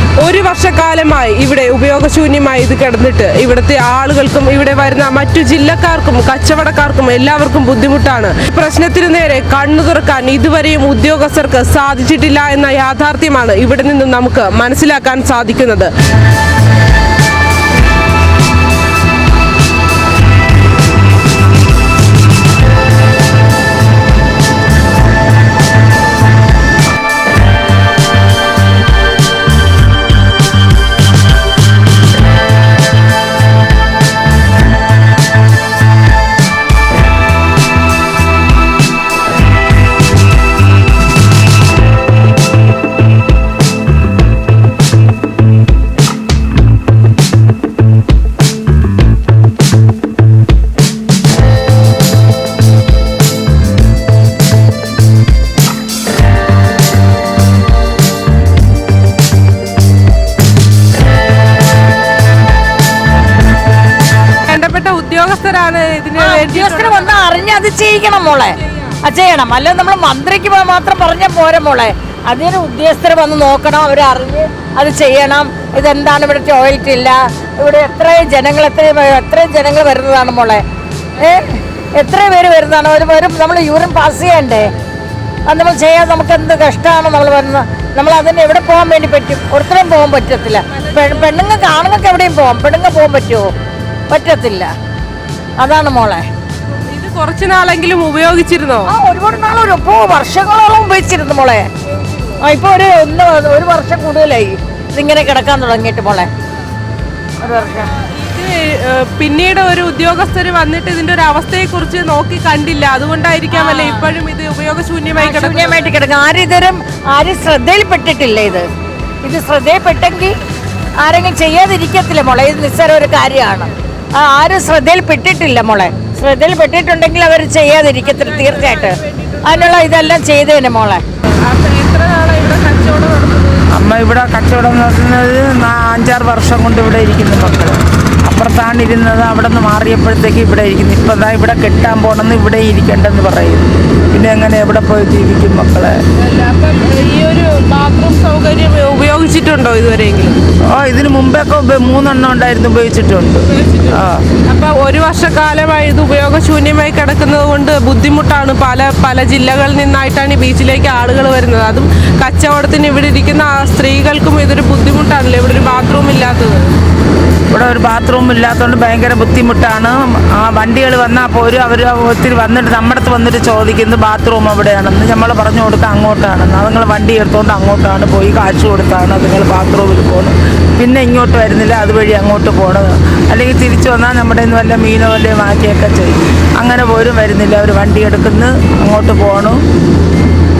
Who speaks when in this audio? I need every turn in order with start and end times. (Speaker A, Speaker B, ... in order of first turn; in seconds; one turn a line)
Speaker A: 0.2-15.9
Speaker A: 64.5-67.2
Speaker B: 66.2-80.6
Speaker B: 81.2-84.7
Speaker B: 85.5-93.5
Speaker A: 90.7-91.4
Speaker B: 94.1-94.7
Speaker B: 95.6-96.2
Speaker A: 96.9-98.9
Speaker B: 98.9-101.7
Speaker B: 102.4-106.3
Speaker B: 107.4-107.9
Speaker A: 107.9-115.9
Speaker B: 113.5-114.1
Speaker B: 115.2-118.7
Speaker B: 119.2-120.3
Speaker B: 121.0-131.0
Speaker A: 128.0-129.8
Speaker A: 131.4-133.7
Speaker C: 133.7-146.0
Speaker A: 146.2-150.4
Speaker C: 150.7-154.3
Speaker A: 154.4-166.7
Speaker C: 167.5-189.6